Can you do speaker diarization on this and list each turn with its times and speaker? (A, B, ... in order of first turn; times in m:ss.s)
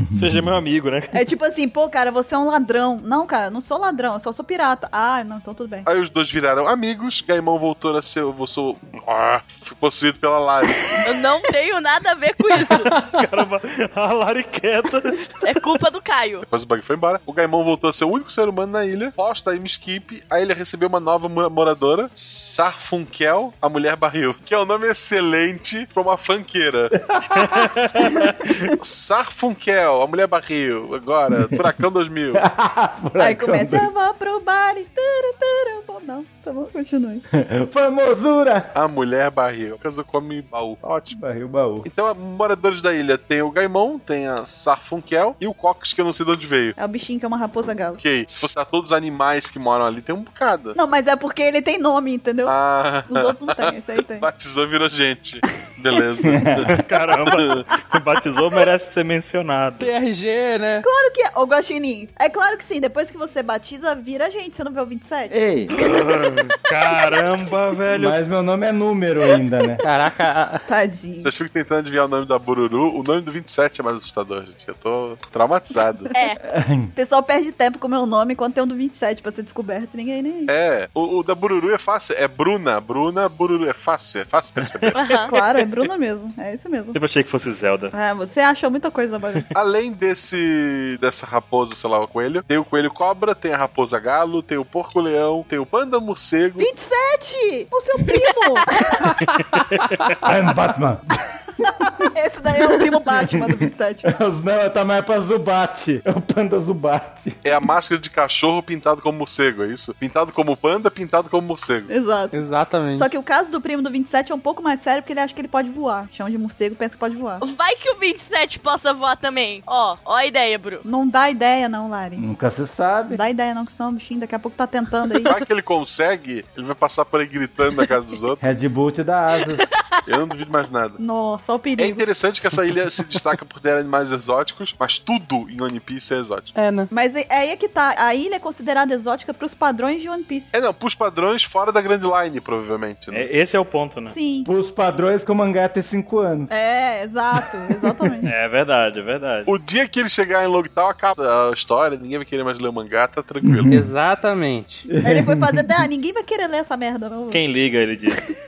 0:00.1-0:01.2 A
0:01.1-0:05.9 B
0:05.8-0:11.0 C
0:11.0-0:12.9 D
0:12.9-0:15.4 A
0:15.4-0:16.5 D
0:16.4-0:26.9 C
0:27.0-0:27.7 E
0:27.3-0:28.5 A
0:28.8-0:32.4 C
0:32.3-0:33.9 E
0:33.2-0:37.2 B
0:37.4-0:38.7 E
0:38.7-0:41.2 C
0:41.1-0:41.9 E
0:41.8-0:46.8 C
0:46.8-0:48.0 B
0:48.0-0:50.8 C
0:50.7-0:54.3 B
0:52.4-0:57.6 C
0:56.2-0:56.8 E
0:56.7-0:59.9 A
0:59.8-1:00.8 F
1:00.8-1:05.9 B
1:05.3-1:05.8 E
1:05.8-1:08.2 A
1:07.9-1:09.8 E
1:09.8-1:10.6 F
1:10.6-1:11.3 B
1:11.2-1:16.1 C
1:16.1-1:16.4 D
1:16.4-1:16.9 E
1:16.9-1:20.5 B
1:20.5-1:25.0 C
1:24.9-1:25.3 D
1:25.3-1:27.0 B
1:26.9-1:27.9 A
1:27.9-1:29.4 B
1:29.5-1:36.7 C
1:36.6-1:39.1 B
1:39.8-1:40.2 A
1:40.2-1:41.0 E
1:41.6-1:42.0 E
1:41.7-1:44.1 B
1:43.1-1:47.4 E
1:47.4-1:51.9 C
1:51.9-1:52.4 B
1:52.3-1:53.1 F
1:52.9-1:57.4 B
1:57.4-2:00.8 D
2:00.8-2:02.2 B
2:02.2-2:03.2 E
2:03.1-2:05.3 B
2:05.2-2:08.4 C
2:08.4-2:09.7 E
2:09.5-2:10.0 D
2:10.0-2:11.0 C
2:11.0-2:12.0 B
2:11.8-2:16.5 C
2:16.5-2:16.9 F
2:16.9-2:20.5 B
2:20.5-2:23.3 C
2:23.1-2:24.1 A
2:24.1-2:24.5 B
2:24.4-2:26.5 E
2:26.5-2:28.3 B
2:27.8-2:28.1 E
2:28.2-2:29.5 A
2:29.5-2:33.7 C
2:33.4-2:33.9 E
2:33.7-2:34.8 F
2:34.9-2:35.8 E
2:35.0-2:37.4 B
2:37.3-2:38.2 A